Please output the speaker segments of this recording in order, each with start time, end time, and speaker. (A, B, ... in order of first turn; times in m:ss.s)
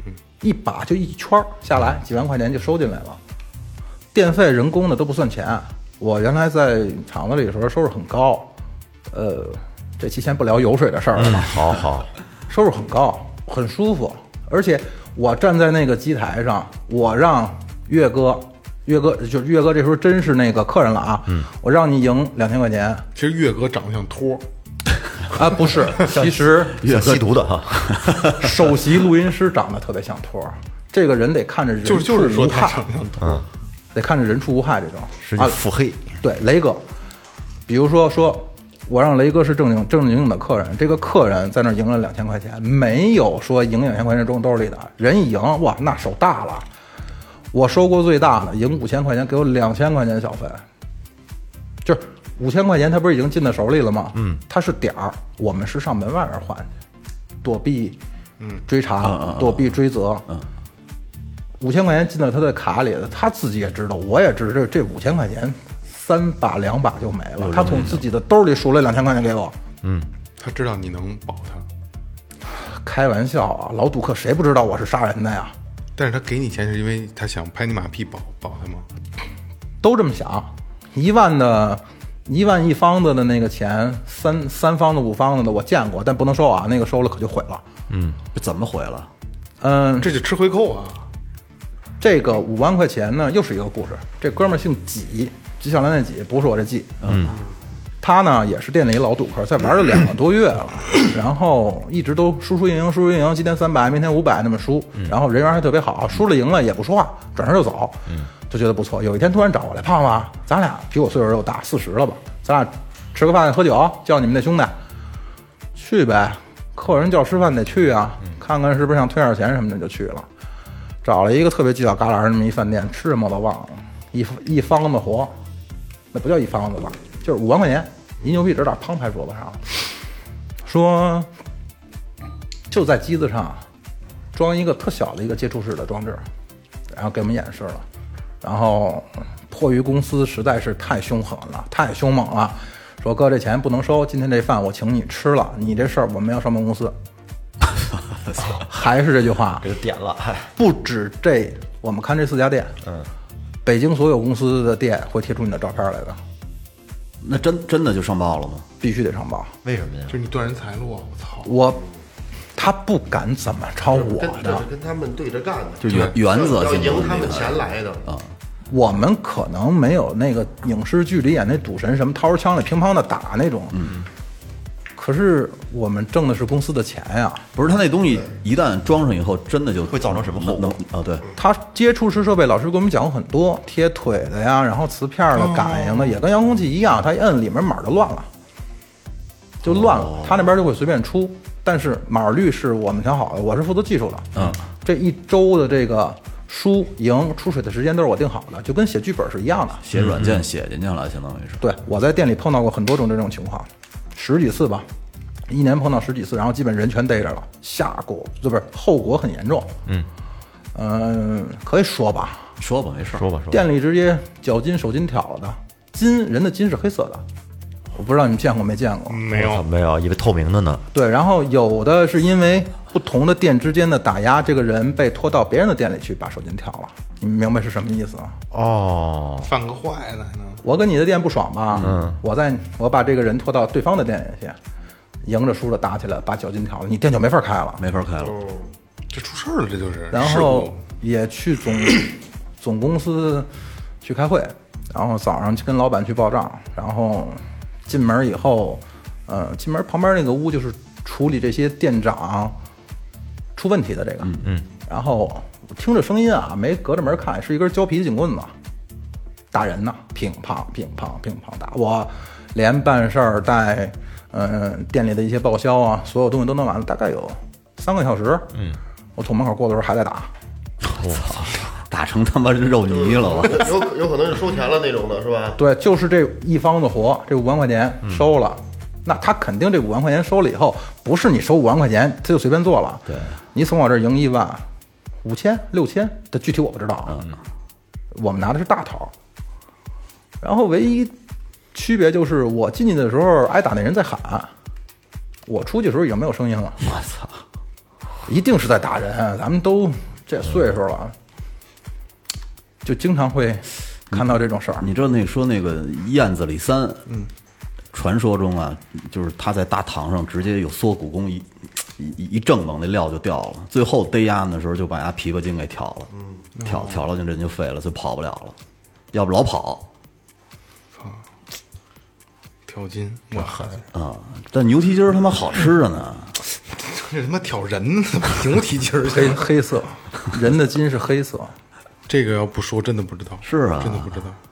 0:00.4-0:03.2 A
0:04.1-0:08.5 A
0:09.1-0:11.8 A
0:11.1-0:12.1 B
0:12.5-0:23.0 A
0:23.1-0:24.4 C
0:25.3-0:26.8 A
0:26.0-0:28.2 B
0:26.8-0:28.5 D
0:28.3-0:32.9 A
0:31.8-0:33.4 C
0:33.2-0:33.4 B
0:33.9-0:35.6 A
0:35.2-0:36.2 B
0:36.2-0:36.8 A
0:37.7-0:46.6 A
0:47.5-0:50.6 A
0:51.8-0:56.7 A
0:57.4-0:58.0 A
0:58.7-1:00.2 A
0:59.0-0:59.8 D
1:01.6-1:09.5 A
1:07.4-1:08.1 D
1:09.8-1:10.1 B
1:10.4-1:11.6 C
1:12.6-1:15.5 A
1:16.0-1:18.9 C
1:19.8-1:27.6 A
1:27.9-1:28.2 B
1:28.3-1:29.1 D
1:29.6-1:30.1 A
1:30.0-1:31.0 C
1:32.0-1:37.0 A
1:37.0-1:37.4 D
1:37.0-1:37.4 B
1:38.0-1:54.8 A
1:55.8-2:00.3 A
2:01.0-2:05.3 A
2:06.1-2:09.9 A
2:10.6-2:11.3 A
2:12.7-2:13.6 A
2:14.3-2:16.2 A
2:16.9-2:17.8 A
2:18.4-2:26.9 A
2:28.5-2:29.7 A
2:29.6-2:30.5 B
2:30.6-2:32.8 A
2:33.6-2:36.2 A
2:37.2-2:38.6 D
2:38.8-2:39.5 A
2:39.6-2:40.2 B
2:40.1-2:41.5 C
2:41.4-2:41.8 A
2:42.6-2:44.6 A
2:43.8-2:48.0 E
2:45.8-2:48.3 D
2:45.9-2:46.1 C
2:48.7-2:53.9 A
2:53.7-2:54.0 D
2:55.0-2:57.4 A
2:57.5-3:01.3 D
2:59.9-3:00.8 B
3:01.4-3:08.3 A
3:05.4-3:06.2 C
3:09.6-3:19.8 A
3:09.6-3:10.4 D
3:19.8-3:21.6 D
3:20.0-3:20.4 B
3:21.6-3:24.9 A
3:25.5-3:29.7 A
3:30.7-3:32.5 A
3:32.6-3:33.2 D
3:33.1-3:33.7 B
3:33.5-3:37.2 A
3:37.9-3:39.2 A
3:39.1-3:39.6 C
3:39.3-3:40.8 B
3:40.9-3:48.4 A
3:48.5-3:49.5 B
3:49.4-3:50.6 C
3:50.6-3:54.6 A
3:51.7-3:52.0 D
3:51.8-3:52.2 B
3:55.2-3:57.8 A
3:57.8-3:58.4 D
3:58.2-3:58.7 E
3:59.1-4:00.8 C
4:00.1-4:03.5 A
4:04.0-4:12.5 A
4:13.6-4:14.3 A
4:14.9-4:18.5 A
4:19.5-4:28.5 A
4:29.2-4:30.3 A
4:30.9-4:33.9 D
4:30.9-4:31.6 B
4:32.9-4:35.6 E
4:35.6-4:44.6 A
4:43.1-4:43.4 D
4:45.2-4:47.2 A
4:48.1-4:49.1 A
4:50.4-4:51.1 A
4:51.7-4:54.5 A
4:55.4-4:56.8 A
4:56.8-4:57.4 D
4:58.2-5:01.1 A
5:02.8-5:04.9 A
5:04.1-5:07.0 D
5:07.9-5:16.1 D
5:16.1-5:16.5 E
5:16.5-5:17.0 C
5:16.6-5:18.6 D
5:19.1-5:19.9 D
5:20.9-5:21.2 C
5:22.7-5:23.8 C
5:23.9-5:26.4 D
5:26.7-5:29.5 C
5:29.1-5:31.5 A
5:32.1-5:34.4 C
5:33.4-5:34.2 D